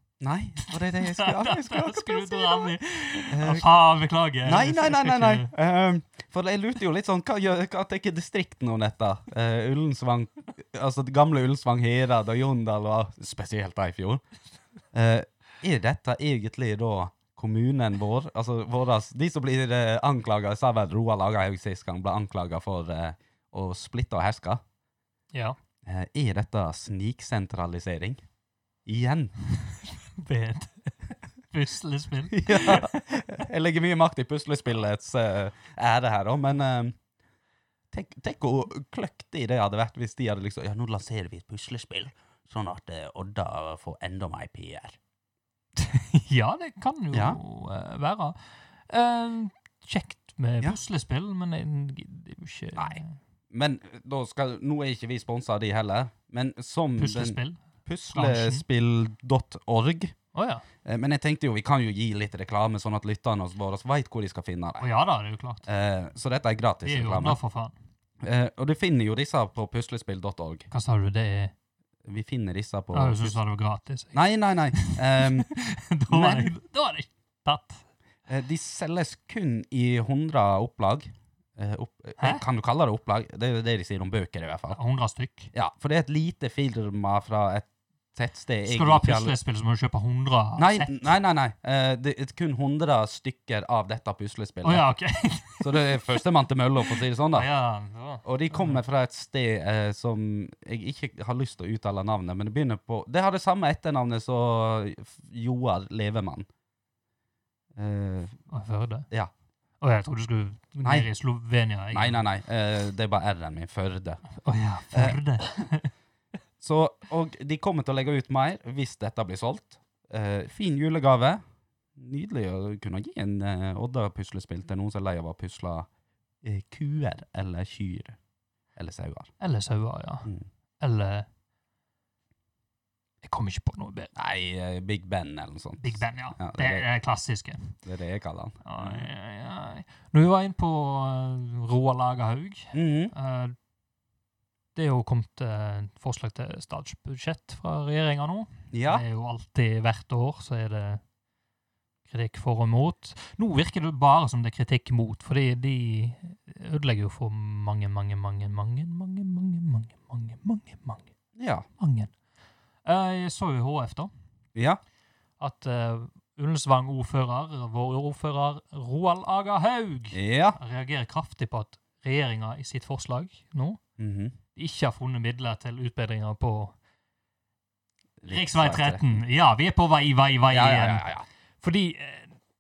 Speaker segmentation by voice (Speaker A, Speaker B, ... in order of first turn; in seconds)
Speaker A: 0.2-2.7, 3.3-3.6, 4.5-14.2, 14.9-24.6, 25.9-28.2, 28.9-29.3, 32.3-37.0, 37.9-45.0, 47.1-47.4, 53.5-60.1, 60.9-64.8, 65.7-67.4, 68.2-70.7, 72.0-73.4, 74.1-75.5, 76.1-76.5, 78.3-84.8, 85.5-89.3, 90.6-94.8, 95.6-97.5, 98.2-106.5, 107.8-108.4, 111.9-114.2, 114.9-115.6, 116.6-121.4, 122.0-125.9, 126.4-128.2, 128.8-129.3, 134.2-136.8, 137.9-139.1, 142.7-143.1, 148.7-149.0, 161.4-161.7, 170.1-170.6, 174.0-174.3, 178.2-179.2, 180.5-181.2
Speaker B: 0.6-5.5, 30.2-33.3, 45.8-53.2, 57.0-57.6, 58.1-58.6, 60.3-60.6, 64.8-65.7, 66.8-67.7, 70.7-71.5, 72.9-74.2, 74.7-77.8, 82.2-82.4, 84.7-85.5, 88.7-91.1, 94.6-96.2, 96.9-98.8, 108.5-109.1, 109.8-112.2, 114.3-115.9, 129.4-131.3, 133.2-134.1, 135.8-137.8, 138.7-143.6, 144.8-151.0, 152.1-161.1, 161.8-162.1, 162.8-164.1, 165.4-173.8, 174.6-176.7, 178.3-181.1, 181.6-182.3